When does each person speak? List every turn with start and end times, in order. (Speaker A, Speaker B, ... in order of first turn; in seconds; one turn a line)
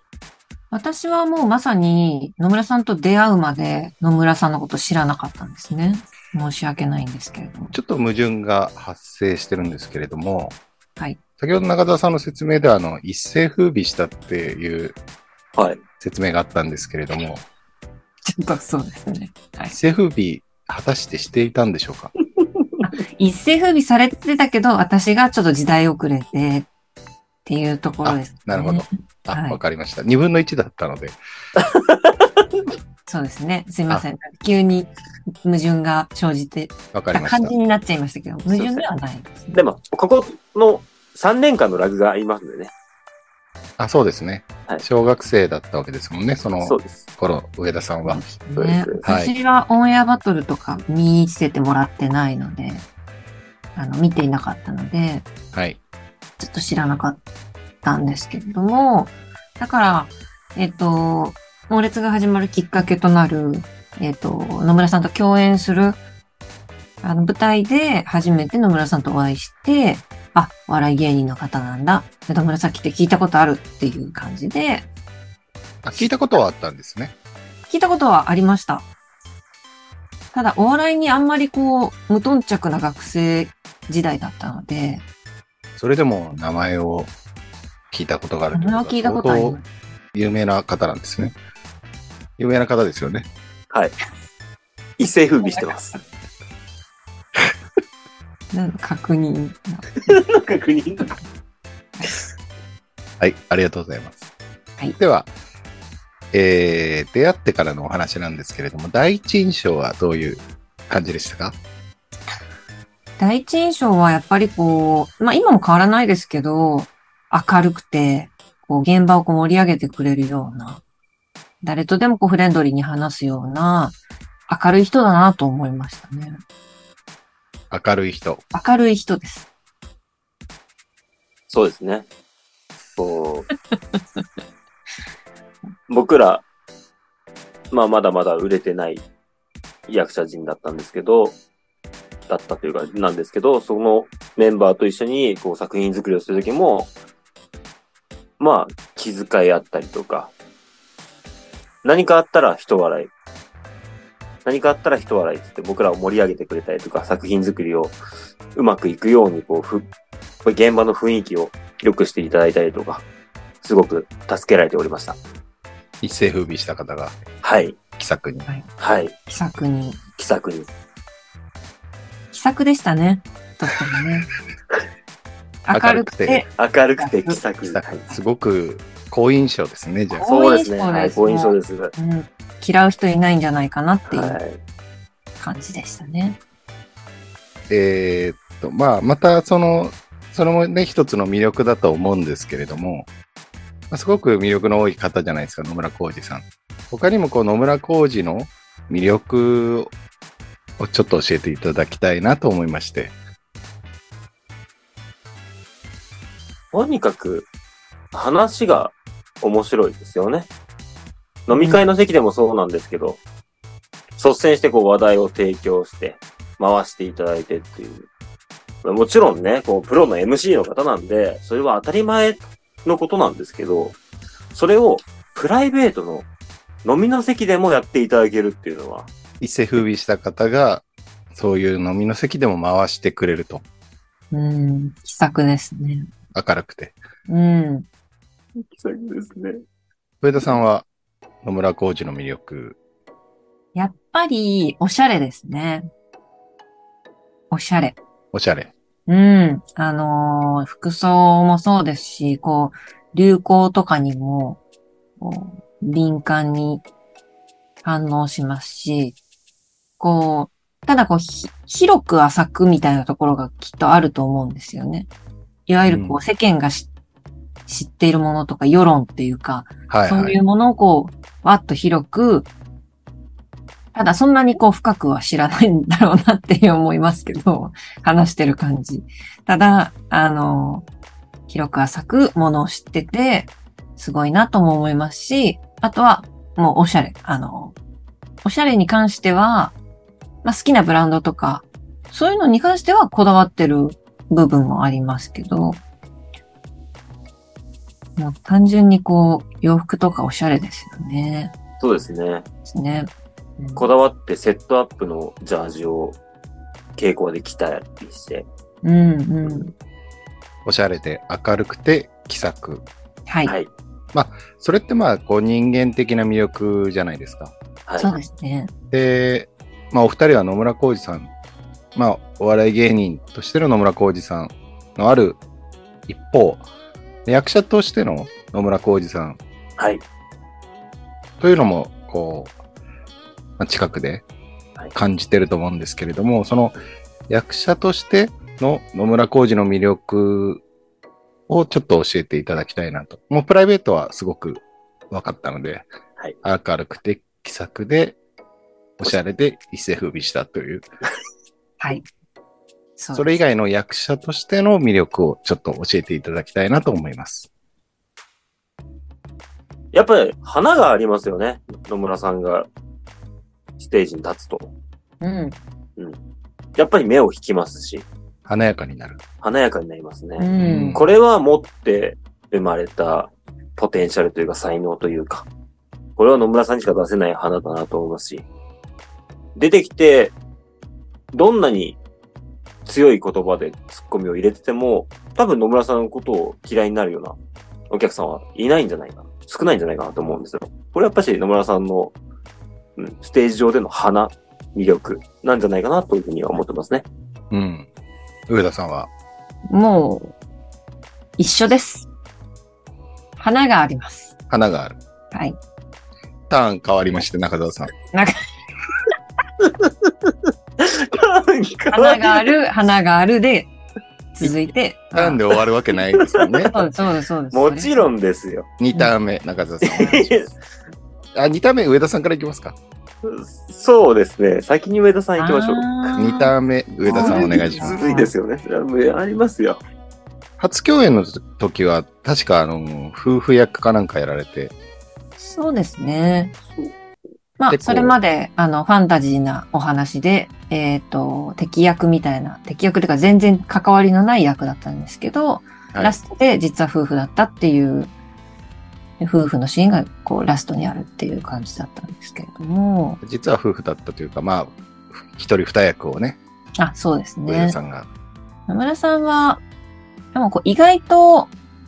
Speaker A: 0.7-7.7
Speaker B: 7.7-10.6
Speaker B: 11.4-15.0
Speaker C: 15.6-15.8
Speaker B: 16.0-17.4
Speaker A: 18.2-19.8
Speaker B: 19.7-22.1
Speaker A: 22.8-26.7
Speaker A: 27.4-29.6
Speaker B: 28.1-31.2
Speaker C: 31.6-32.6
Speaker A: 33.1-34.9
Speaker A: 35.4-39.6
Speaker B: 36.9-37.5
Speaker C: 38.5-38.9
Speaker C: 39.5-42.7
Speaker B: 43.8-48.2
Speaker C: 46.6-47.0
Speaker A: 48.0-52.9
Speaker C: 48.5-49.0
Speaker B: 49.0-49.3
Speaker A: 53.8-55.2
Speaker B: 55.5-55.8
Speaker A: 56.4-57.2
Speaker A: 57.8-66.0
Speaker A: 67.0-74.9
Speaker B: 75.8-77.1
Speaker A: 75.9-76.4
Speaker A: 77.7-78.9
Speaker A: 80.3-85.0
Speaker B: 85.8-87.1
Speaker B: 87.9-89.6
Speaker A: 88.5-89.6
Speaker B: 90.1-91.3
Speaker B: 92.4-93.3
Speaker C: 95.0-95.9
Speaker A: 95.4-96.0
Speaker A: 98.5-100.2
Speaker C: 100.1-101.2
Speaker B: 103.2-104.3
Speaker B: 105.0-105.3
Speaker B: 106.3-111.6
Speaker A: 113.2-120.8
Speaker A: 121.6-124.0
Speaker A: 124.5-126.4
Speaker B: 127.7-128.4
Speaker A: 128.5-129.5
Speaker C: 131.5-132.1
Speaker C: 132.9-133.5
Speaker C: 135.9-136.4
Speaker C: 137.7-139.1
Speaker C: 139.9-141.4
Speaker C: 142.3-146.9
Speaker C: 148.4-150.3
Speaker C: 151.8-153.1
Speaker C: 154.4-158.0
Speaker C: 158.6-159.8
Speaker C: 160.4-163.0
Speaker C: 163.6-165.2
Speaker B: 166.0-167.2
Speaker C: 167.4-167.8
Speaker B: 167.9-168.5
Speaker C: 168.8-169.2
Speaker A: 169.3-170.0
Speaker C: 170.2-170.7
Speaker A: 172.3-174.3
Speaker A: 175.7-177.4
Speaker B: 175.7-176.5
Speaker C: 176.6-178.1
Speaker B: 177.6-180.3
Speaker A: 180.1-184.4
Speaker C: 180.2-181.9
Speaker C: 184.1-184.6
Speaker A: 185.4-186.4
Speaker B: 187.7-193.1
Speaker B: 193.9-199.9
Speaker B: 200.8-203.2
Speaker C: 206.7-207.5
Speaker C: 208.1-210.5
Speaker C: 211.5-213.2
Speaker A: 211.5-211.8
Speaker C: 214.2-218.1
Speaker C: 218.8-224.0
Speaker C: 224.5-226.3
Speaker C: 226.8-229.1
Speaker B: 229.4-233.6
Speaker A: 234.3-236.1
Speaker B: 236.3-237.0
Speaker A: 237.3-237.9
Speaker C: 238.6-239.6
Speaker B: 240.2-240.9
Speaker B: 241.4-242.8
Speaker A: 243.8-245.9
Speaker A: 247.5-248.0
Speaker B: 248.3-248.7
Speaker A: 249.1-254.6
Speaker A: 255.2-256.8
Speaker A: 257.8-259.2
Speaker A: 260.0-265.1
Speaker A: 265.7-266.9
Speaker B: 265.9-266.2
Speaker A: 267.7-272.5
Speaker B: 269.9-270.4
Speaker A: 273.9-280.9
Speaker A: 281.5-287.8
Speaker A: 288.4-289.8
Speaker A: 290.4-295.8
Speaker A: 298.2-301.5
Speaker C: 301.8-302.4
Speaker A: 302.6-303.9
Speaker C: 303.8-306.2
Speaker C: 307.0-308.5
Speaker A: 308.8-309.7
Speaker B: 310.6-312.9
Speaker A: 313.3-313.5
Speaker B: 314.1-317.5
Speaker C: 317.9-318.1
Speaker A: 318.0-318.7
Speaker B: 318.9-321.3
Speaker B: 321.9-325.4
Speaker B: 326.1-326.6
Speaker B: 327.2-329.4
Speaker B: 331.4-332.5
Speaker B: 333.6-334.2
Speaker B: 334.9-336.8
Speaker B: 337.3-340.6
Speaker B: 341.5-345.9
Speaker B: 346.4-348.2
Speaker B: 349.0-350.9
Speaker A: 351.8-352.1
Speaker A: 353.0-353.4
Speaker B: 353.1-357.5
Speaker C: 359.9-362.7
Speaker C: 363.8-364.7
Speaker A: 365.2-365.6
Speaker C: 366.8-368.1
Speaker B: 368.5-369.2
Speaker C: 369.4-375.5
Speaker A: 370.4-371.0
Speaker B: 370.6-371.1
Speaker C: 376.2-378.5
Speaker C: 379.6-380.4
Speaker C: 381.3-382.0
Speaker C: 382.9-387.4
Speaker C: 387.9-392.1
Speaker C: 393.0-397.0
Speaker B: 397.5-397.9
Speaker B: 398.5-399.1
Speaker A: 399.7-400.4
Speaker A: 401.4-402.1
Speaker A: 403.4-404.3
Speaker B: 404.5-405.0
Speaker B: 406.5-407.9
Speaker A: 408.1-408.4
Speaker C: 409.6-410.1
Speaker C: 410.8-412.5
Speaker A: 411.9-413.7
Speaker A: 414.4-415.4
Speaker B: 415.1-416.7
Speaker C: 416.1-416.7
Speaker A: 416.7-418.1
Speaker C: 417.5-418.7
Speaker B: 418.8-420.5
Speaker C: 419.8-420.6
Speaker B: 421.3-422.8
Speaker C: 423.2-426.1
Speaker A: 425.4-426.5
Speaker B: 426.1-428.0
Speaker A: 427.1-428.3
Speaker C: 427.1-429.8
Speaker B: 430.6-434.7
Speaker A: 435.4-436.5
Speaker A: 437.6-448.1
Speaker B: 437.7-438.1
Speaker B: 445.9-446.2
Speaker A: 449.2-453.2
Speaker B: 453.2-456.4
Speaker A: 456.8-457.8
Speaker B: 457.5-458.1
Speaker A: 458.7-459.6
Speaker A: 460.3-461.5